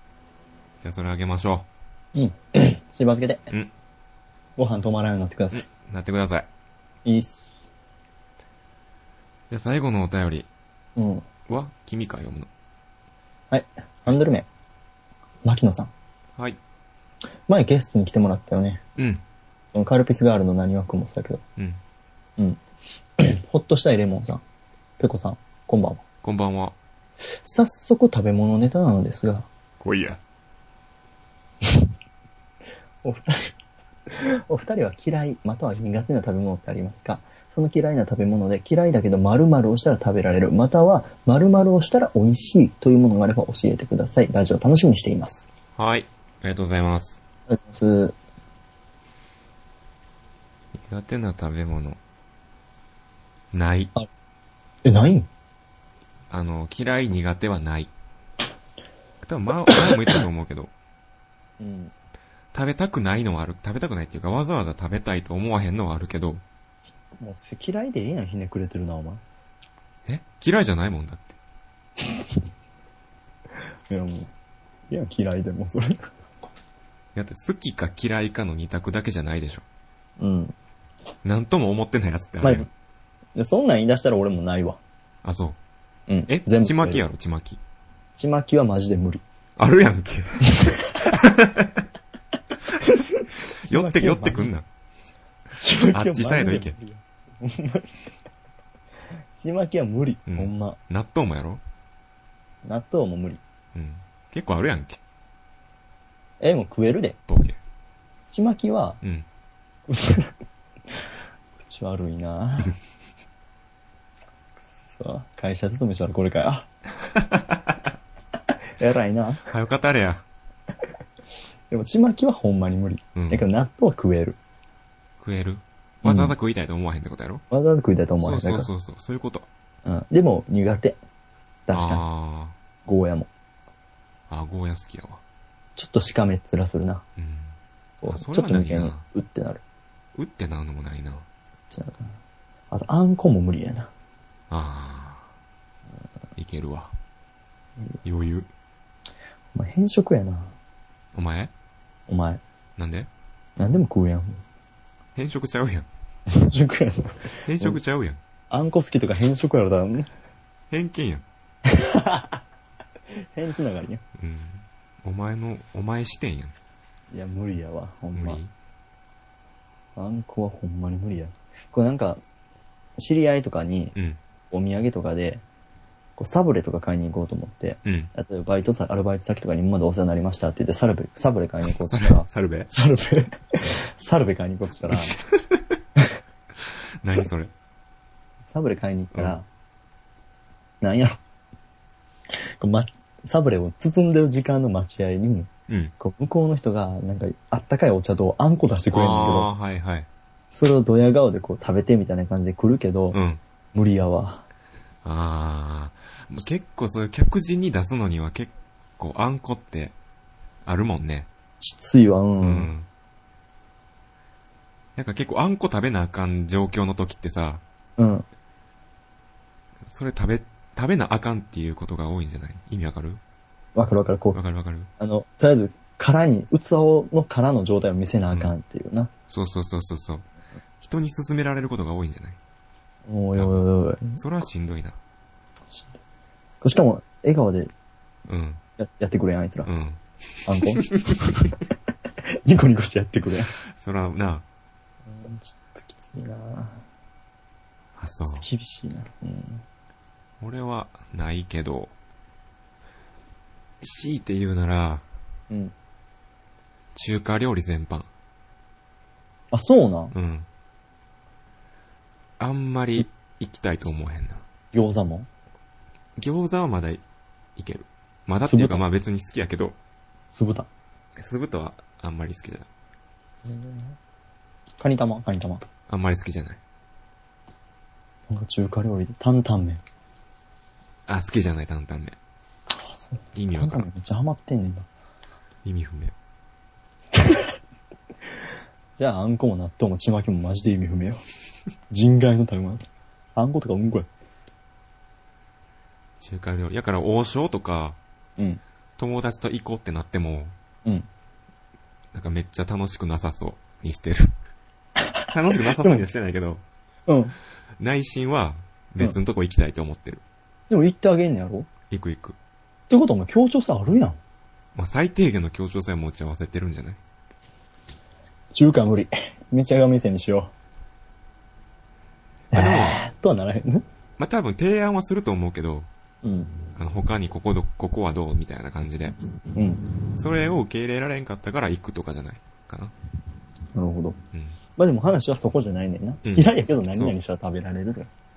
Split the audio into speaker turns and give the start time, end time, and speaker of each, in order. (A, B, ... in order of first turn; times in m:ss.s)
0:00.8-0:01.7 A
0:02.1-0:03.5 B
0:04.6-0:05.6 B
0:05.5-0:06.5 A
0:07.0-0:07.4 B
0:09.5-0:10.5 A
0:11.0-0:11.2 B
0:11.5-0:12.5 A
0:13.5-0:14.4 B
0:15.4-0:15.9 B
0:17.5-0:18.8 B
0:19.0-0:19.2 A
0:19.7-0:21.4 B
0:23.2-0:24.4 B
0:25.0-0:26.0 B
0:26.2-0:26.8 A
0:27.4-0:29.5 B
0:29.8-0:30.2 A
0:33.0-0:33.5 B
0:34.1-0:45.4 B
0:45.8-0:47.2 A
0:47.5-0:48.2 B
0:50.8-0:52.0 A
0:53.5-0:53.9 A
0:54.8-0:55.3 B
0:56.3-0:57.9 A
0:59.2-1:00.7 A
1:01.6-1:01.9 B
1:02.5-1:06.4 A
1:07.2-1:09.2 B
1:10.0-1:11.4 A
1:13.9-1:14.3 B
1:14.9-1:16.0 B
1:17.1-1:19.6 A
1:20.2-1:20.5 B
1:21.2-1:22.7 A
1:22.4-1:22.7 B
1:23.4-1:24.8 B
1:25.2-1:25.6 A
1:26.1-1:27.0 B
1:26.3-1:27.6 A
1:28.2-1:29.2 B
1:29.6-1:31.8 A
1:30.4-1:31.1 B
1:32.8-1:34.5 B
1:33.6-1:34.6 A
1:35.6-1:38.0 B
1:35.9-1:36.8 A
1:39.4-1:40.8 B
1:40.3-1:41.6 A
1:42.6-1:43.4 B
1:43.7-1:45.0 A
1:46.4-1:47.2 B
1:47.3-1:47.6 A
1:48.3-1:49.0 B
1:49.9-1:50.3 B
1:51.6-1:52.8 B
1:54.7-1:56.7 B
1:57.1-1:57.8 A
1:58.8-1:59.5 B
1:59.5-2:00.2 A
2:01.7-2:04.4 B
2:03.1-2:03.4 A
2:05.2-2:07.4 A
2:06.0-2:06.3 B
2:07.5-2:08.7 B
2:08.2-2:09.5 A
2:09.8-2:11.0 B
2:11.7-2:12.0 B
2:11.7-2:12.6 A
2:12.9-2:13.3 B
2:14.3-2:15.2 A
2:15.8-2:17.0 B
2:17.2-2:19.0 A
2:18.0-2:19.6 B
2:20.2-2:21.3 A
2:21.7-2:22.1 B
2:22.7-2:23.9 B
2:24.5-2:25.3 A
2:26.4-2:26.9 A
2:28.0-2:28.5 A
2:29.5-2:30.5 B
2:31.1-2:31.5 A
2:32.1-2:32.4 B
2:32.8-2:33.1 A
2:33.6-2:34.4 B
2:35.1-2:35.9 A
2:36.3-2:37.8 B
2:37.4-2:38.2 A
2:38.5-2:40.1 B
2:40.7-2:41.2 A
2:41.6-2:42.4 B
2:43.2-2:44.0 B
2:44.2-2:46.5 A
2:47.1-2:48.4 B
2:48.1-2:48.5 A
2:50.0-2:52.2 B
2:53.0-2:53.9 B
2:54.5-2:55.4 B
2:56.2-3:05.2 B
2:57.8-2:58.1 A
3:01.6-3:02.7 A
3:04.9-3:05.8 A
3:06.6-3:07.5 A
3:08.5-3:09.4 B
3:10.8-3:11.2 B
3:12.6-3:19.5 B
3:15.7-3:15.9 A
3:18.9-3:20.1 A
3:20.5-3:23.2 B
3:23.1-3:23.4 A
3:23.7-3:24.4 B
3:25.0-3:29.9 A
3:30.6-3:31.3 A
3:31.6-3:32.7 B
3:32.4-3:32.9 A
3:35.0-3:37.6 A
3:38.0-3:38.3 B
3:39.9-3:43.2 A
3:43.8-3:44.4 B
3:44.3-3:44.9 A
3:45.0-3:49.1 B
3:49.3-3:50.3 A
3:50.8-3:52.4 A
3:53.1-3:54.2 B
3:53.3-3:53.6 A
3:54.2-3:55.0 A
3:56.6-3:57.7 B
3:58.3-3:58.6 A
3:58.8-3:59.7 B
3:59.6-4:01.2 A
4:00.4-4:01.5 B
4:02.3-4:03.5 B
4:03.6-4:04.4 A
4:05.1-4:06.8 B
4:08.0-4:08.5 A
4:08.3-4:09.6 B
4:10.4-4:11.9 A
4:13.8-4:15.0 A
4:16.9-4:18.1 A
4:19.5-4:20.1 B
4:20.1-4:20.5 A
4:22.4-4:24.4 A
4:24.7-4:25.3 B
4:26.2-4:27.0 A
4:27.6-4:29.8 A
4:28.5-4:28.8 B
4:30.3-4:30.7 B
4:31.2-4:32.7 A
4:33.4-4:33.9 B
4:34.8-4:35.6 B
4:35.9-4:36.6 A
4:38.3-4:39.8 B
4:41.1-4:42.2 A
4:42.7-4:44.9 B
4:43.3-4:43.9 A
4:45.6-4:46.1 A
4:47.2-4:47.5 B
4:49.0-4:51.2 B
4:51.9-4:54.1 B
4:56.2-4:58.0 A
4:59.0-5:00.6 A
5:02.1-5:04.3 A
5:05.1-5:06.0 B
5:05.3-5:06.6 A
5:07.1-5:07.4 B
5:07.8-5:10.2 A
5:10.7-5:11.7 B
5:11.9-5:12.4 A
5:12.9-5:14.2 B
5:14.7-5:17.0 A
5:18.5-5:20.5 B
5:22.5-5:23.8 B
5:22.5-5:23.0 A
5:24.2-5:25.9 A
5:26.2-5:26.6 B
5:26.8-5:29.1 A
5:29.5-5:29.9 B
5:30.2-5:32.9 A
5:33.7-5:34.2 B
5:34.3-5:34.6 A
5:34.8-5:38.1 B
5:36.2-5:37.1 A